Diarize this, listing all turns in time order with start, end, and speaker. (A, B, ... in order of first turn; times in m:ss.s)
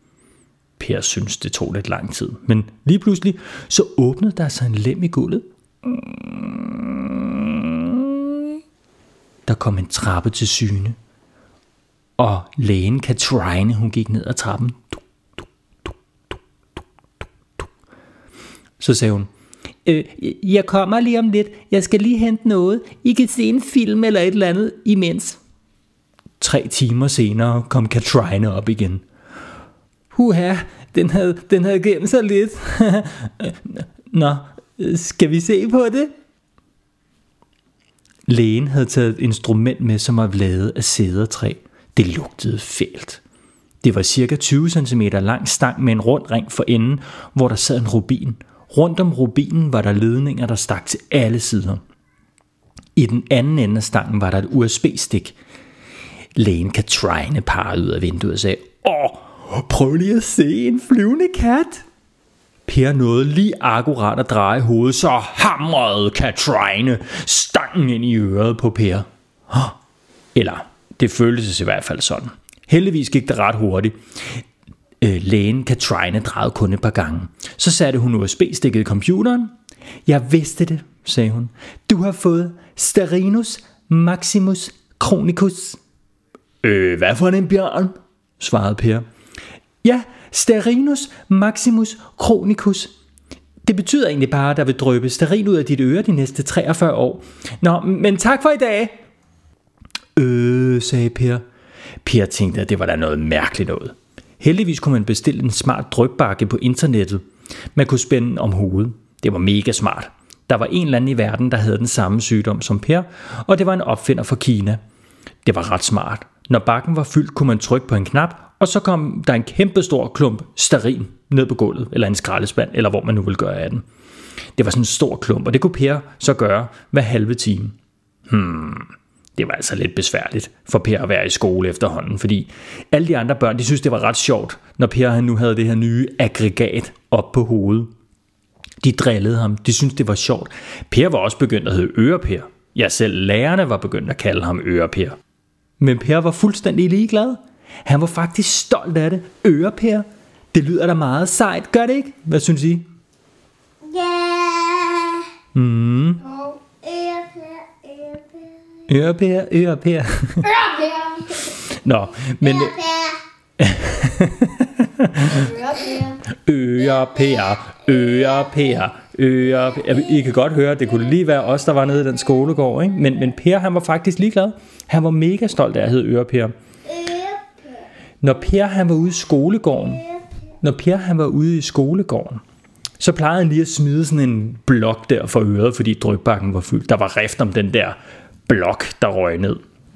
0:00.8-0:08.5 A
0:09.5-0:11.0 A
0:12.2-0:15.0 A
0:18.8-0:19.3 A
0:19.8-0:25.4 A
0:26.4-0:29.0 A
0:30.1-0:36.1 A
0:38.3-0:43.2 A
0:43.8-0:51.8 A
0:53.0-0:55.4 A
0:56.4-1:01.8 A
1:02.7-1:09.8 A
1:10.3-1:14.4 A
1:15.0-1:19.5 A
1:20.0-1:25.8 A
1:26.6-1:29.0 A
1:29.8-1:32.9 A
1:33.6-1:39.0 A
1:40.2-1:41.4 A
1:42.0-1:54.8 A
1:55.4-2:03.8 A
2:04.6-2:07.8 A
2:08.3-2:17.9 A
2:18.8-2:25.2 A
2:25.8-2:32.8 A
2:33.8-2:35.3 B
2:35.5-2:36.3 A
2:36.3-2:38.6 B
2:38.9-2:40.5 A
2:40.4-2:41.5 B
2:41.4-2:42.8 A
2:42.4-2:43.2 B
2:43.6-2:45.6 A
2:45.4-2:46.2 B
2:46.3-2:56.5 A
2:56.9-2:57.6 B
2:58.2-3:00.1 A
3:00.6-3:02.4 A
3:03.0-3:09.6 A